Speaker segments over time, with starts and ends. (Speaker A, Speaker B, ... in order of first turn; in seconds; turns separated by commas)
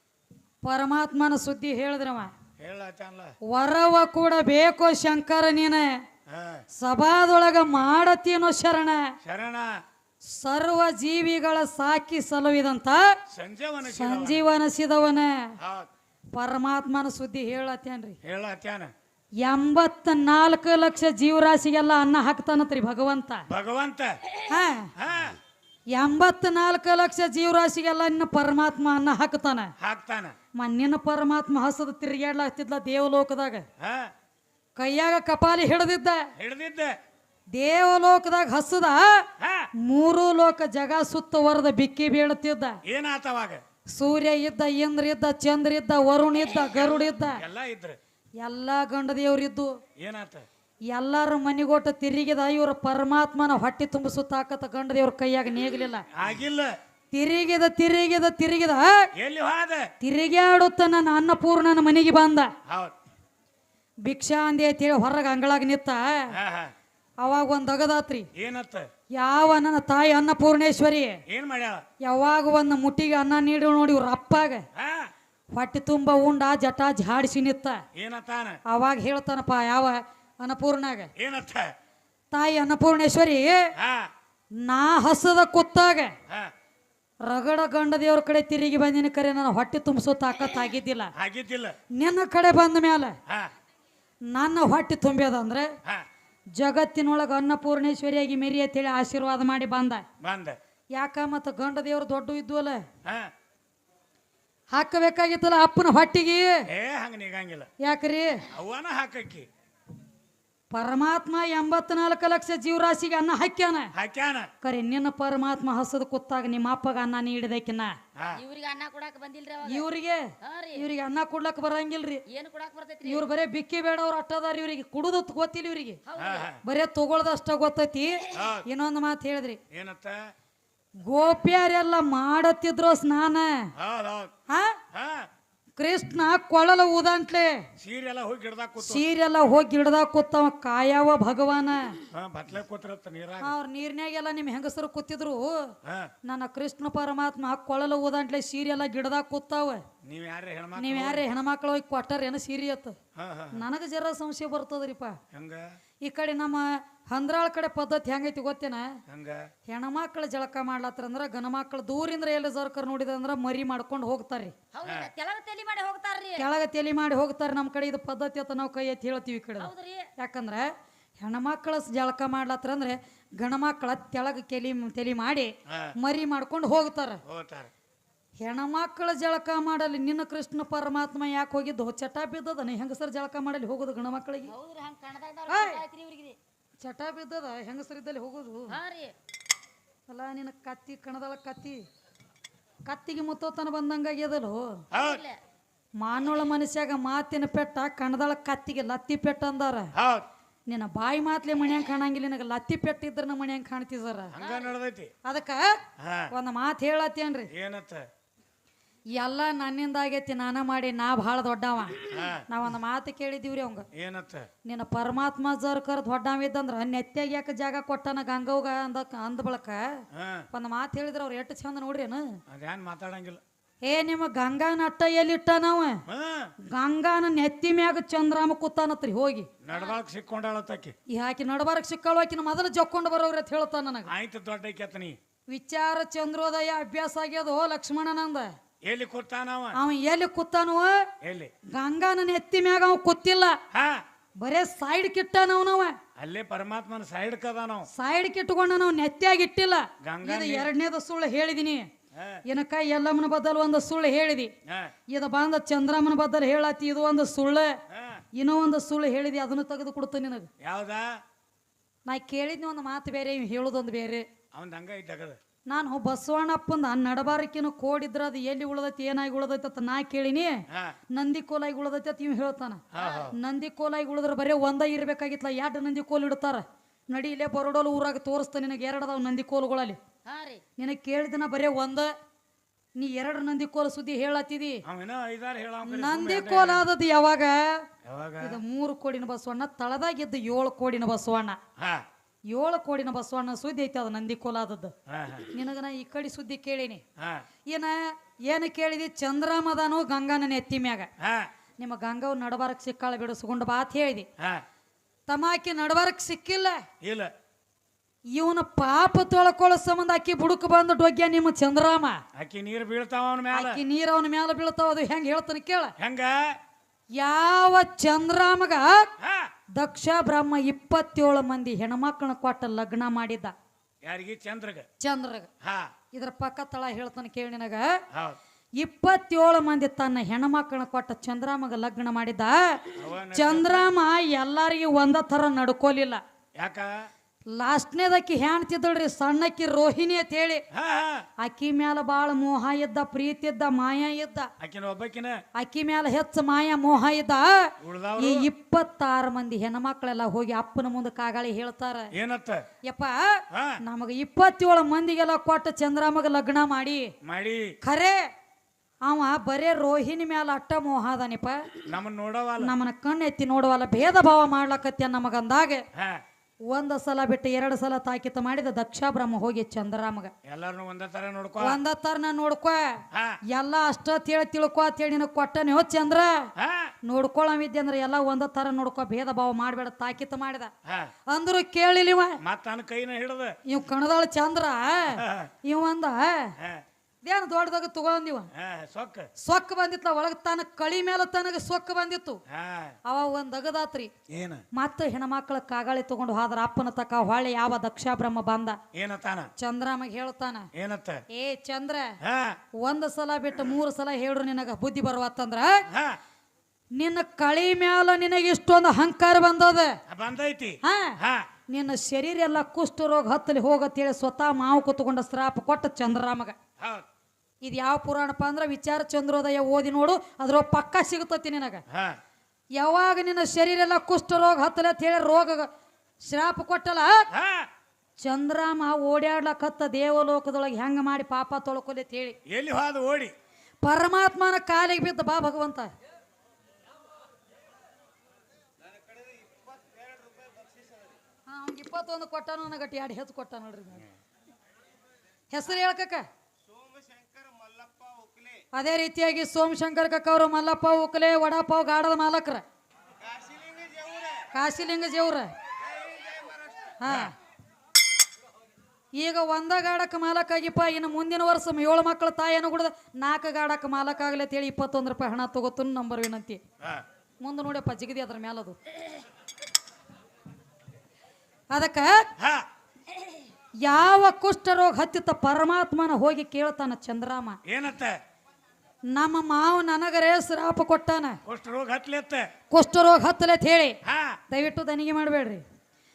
Speaker A: 0.6-2.3, Speaker B: 2.6-3.3, Speaker A: 3.5-6.0, Speaker B: 6.3-6.6, Speaker A: 6.7-9.1, Speaker B: 9.2-9.7, Speaker A: 10.2-13.2, Speaker B: 13.3-14.4, Speaker A: 13.8-15.6, Speaker B: 15.6-15.9, Speaker A: 16.3-18.2, Speaker B: 18.2-18.9, Speaker A: 19.4-23.4, Speaker B: 23.5-24.2, Speaker A: 24.4-24.9, Speaker B: 25.0-25.4, Speaker A: 25.9-29.7, Speaker B: 29.8-30.3, Speaker A: 30.6-33.6, Speaker B: 33.8-34.1, Speaker A: 34.8-36.3, Speaker B: 36.4-37.0, Speaker A: 37.5-39.3, Speaker B: 39.4-39.7, Speaker A: 39.8-42.8, Speaker B: 42.8-43.6, Speaker A: 43.9-47.4, Speaker B: 46.6-48.0, Speaker A: 48.4-49.8, Speaker B: 50.0-50.5, Speaker A: 50.9-56.0, Speaker B: 56.1-56.7, Speaker A: 57.1-59.1, Speaker B: 59.2-59.9, Speaker A: 60.0-62.5, Speaker B: 62.7-62.9, Speaker A: 64.0-66.3, Speaker B: 66.3-66.7, Speaker A: 67.2-68.3, Speaker B: 68.3-68.9, Speaker A: 69.1-71.2, Speaker B: 71.3-71.8, Speaker A: 72.0-74.6, Speaker B: 74.7-75.1, Speaker A: 75.5-77.8, Speaker B: 77.9-78.6, Speaker A: 78.7-81.1, Speaker B: 81.2-81.7, Speaker A: 82.3-83.7, Speaker B: 83.8-84.1, Speaker A: 84.6-86.1, Speaker A: 87.2-91.1, Speaker B: 91.2-91.8, Speaker A: 91.9-93.2, Speaker A: 94.3-95.7, Speaker A: 96.5-100.0, Speaker B: 100.2-100.6, Speaker A: 101.0-102.8, Speaker A: 104.7-106.7, Speaker B: 106.7-107.7, Speaker A: 107.8-108.5, Speaker B: 108.5-109.5, Speaker A: 110.7-113.9, Speaker B: 113.9-114.5, Speaker A: 114.6-118.0, Speaker B: 118.2-118.4, Speaker C: 118.3-119.9, Speaker A: 119.6-122.2, Speaker C: 120.4-120.8, Speaker C: 122.3-123.2, Speaker A: 123.0-126.0, Speaker C: 126.1-126.5, Speaker B: 126.2-126.6, Speaker A: 126.6-129.6, Speaker B: 128.3-128.7, Speaker B: 129.7-130.2, Speaker A: 131.1-133.7, Speaker B: 133.8-134.3, Speaker A: 134.5-134.8, Speaker B: 134.9-135.3, Speaker A: 135.8-137.7, Speaker B: 137.8-139.1, Speaker A: 138.8-142.0, Speaker B: 142.1-143.5, Speaker A: 143.4-149.8, Speaker B: 145.8-146.1, Speaker B: 150.0-151.2, Speaker A: 150.8-152.9, Speaker B: 153.2-153.6, Speaker A: 153.5-155.2, Speaker B: 155.3-155.7, Speaker A: 156.0-159.0, Speaker B: 159.1-159.5, Speaker A: 159.7-164.5, Speaker C: 164.7-166.5, Speaker B: 164.8-165.1, Speaker A: 166.4-177.2, Speaker C: 169.6-170.1, Speaker B: 175.7-175.9, Speaker B: 177.2-177.7, Speaker A: 178.4-184.5, Speaker C: 184.4-186.4, Speaker A: 185.5-185.8, Speaker A: 186.8-188.8, Speaker C: 188.7-189.1, Speaker A: 190.1-191.8, Speaker A: 192.8-194.8, Speaker C: 194.9-195.4, Speaker B: 194.9-195.2, Speaker A: 196.0-199.9, Speaker B: 199.9-200.2, Speaker A: 200.7-204.3, Speaker B: 204.3-205.1, Speaker C: 204.4-204.7, Speaker A: 205.2-207.5, Speaker B: 206.0-206.3, Speaker B: 207.5-208.0, Speaker A: 209.1-213.9, Speaker B: 212.1-212.5, Speaker B: 213.9-214.5, Speaker A: 214.6-222.4, Speaker B: 220.1-220.4, Speaker B: 222.5-223.4, Speaker A: 223.8-226.0, Speaker B: 226.1-226.5, Speaker A: 226.7-229.5, Speaker B: 229.6-230.9, Speaker C: 229.7-230.0, Speaker A: 231.1-234.1, Speaker B: 234.1-235.2, Speaker A: 235.5-238.5, Speaker B: 238.8-239.8, Speaker A: 239.7-241.1, Speaker B: 241.2-241.5, Speaker A: 241.7-243.6, Speaker B: 243.7-244.0, Speaker A: 244.4-246.0, Speaker B: 246.2-247.9, Speaker A: 247.9-251.9, Speaker B: 250.0-250.7, Speaker B: 252.1-252.4, Speaker A: 252.5-254.5, Speaker B: 254.7-254.9, Speaker A: 255.1-257.7, Speaker B: 257.9-258.2, Speaker A: 258.3-260.5, Speaker B: 260.6-261.1, Speaker A: 262.1-264.2, Speaker B: 264.5-265.4, Speaker A: 265.7-270.6, Speaker B: 270.7-271.0, Speaker A: 271.1-280.0, Speaker B: 272.9-273.3, Speaker C: 273.0-273.3, Speaker C: 280.2-280.6, Speaker A: 280.8-282.1, Speaker A: 283.0-284.8, Speaker B: 284.9-286.9, Speaker A: 285.9-287.8, Speaker B: 288.0-288.6, Speaker A: 288.4-291.6, Speaker B: 291.8-292.0, Speaker A: 292.5-294.9, Speaker B: 295.1-295.5, Speaker A: 295.5-297.0, Speaker B: 297.2-297.4, Speaker A: 297.7-301.1, Speaker B: 301.2-301.5, Speaker A: 301.8-304.3, Speaker A: 305.3-306.8, Speaker B: 307.0-307.3, Speaker A: 308.3-312.2, Speaker B: 312.3-313.8, Speaker A: 313.5-315.9, Speaker B: 316.0-316.5, Speaker A: 317.2-319.1, Speaker B: 319.2-319.5, Speaker A: 319.8-323.5, Speaker B: 324.0-324.9, Speaker A: 325.0-325.5, Speaker B: 325.6-325.9, Speaker A: 326.1-328.0, Speaker B: 328.1-328.4, Speaker A: 328.8-336.2, Speaker B: 332.9-333.9, Speaker B: 336.6-337.1, Speaker A: 337.5-340.6, Speaker B: 340.7-341.3, Speaker A: 341.4-344.5, Speaker B: 344.6-345.4, Speaker A: 345.6-352.1, Speaker B: 347.8-348.5, Speaker B: 352.1-352.6, Speaker A: 352.9-357.1, Speaker B: 353.5-353.8, Speaker B: 357.2-357.7, Speaker A: 357.8-358.2, Speaker A: 359.0-361.7, Speaker B: 361.9-362.7, Speaker A: 362.6-365.8, Speaker B: 365.9-366.2, Speaker A: 366.7-370.3, Speaker B: 370.5-371.8, Speaker A: 371.6-376.5, Speaker B: 373.1-373.4, Speaker B: 376.6-376.9, Speaker A: 377.0-380.7, Speaker B: 380.9-381.1, Speaker A: 381.3-382.4, Speaker B: 382.4-383.6, Speaker A: 383.6-386.5, Speaker B: 385.1-385.5, Speaker B: 386.6-386.8, Speaker A: 387.2-388.5, Speaker B: 388.5-389.3, Speaker A: 389.4-392.4, Speaker B: 392.5-392.9, Speaker A: 393.1-394.1, Speaker B: 394.3-394.6, Speaker A: 394.7-398.8, Speaker B: 398.9-399.5, Speaker A: 399.6-400.7, Speaker B: 400.7-401.2, Speaker A: 401.3-402.1, Speaker B: 402.2-402.6, Speaker A: 402.8-405.8, Speaker B: 405.9-406.2, Speaker A: 406.9-409.9, Speaker B: 410.1-411.4, Speaker A: 410.8-411.2, Speaker A: 411.7-416.5, Speaker B: 416.8-417.0, Speaker A: 417.6-421.8, Speaker B: 421.9-422.2, Speaker A: 422.8-425.7, Speaker A: 426.2-427.3, Speaker B: 427.3-427.7, Speaker A: 428.2-432.4, Speaker B: 432.5-433.3, Speaker A: 433.8-435.9, Speaker A: 441.5-444.1, Speaker A: 445.5-446.2, Speaker A: 448.7-452.6, Speaker A: 454.5-455.5, Speaker A: 457.0-457.3, Speaker B: 457.1-457.3, Speaker A: 459.1-466.6, Speaker A: 467.4-468.8, Speaker A: 471.7-472.3, Speaker B: 472.4-472.6, Speaker A: 473.8-477.6, Speaker B: 477.7-478.2, Speaker A: 479.1-481.4, Speaker B: 481.4-482.5, Speaker A: 482.7-484.0, Speaker B: 484.0-484.4, Speaker A: 484.5-485.6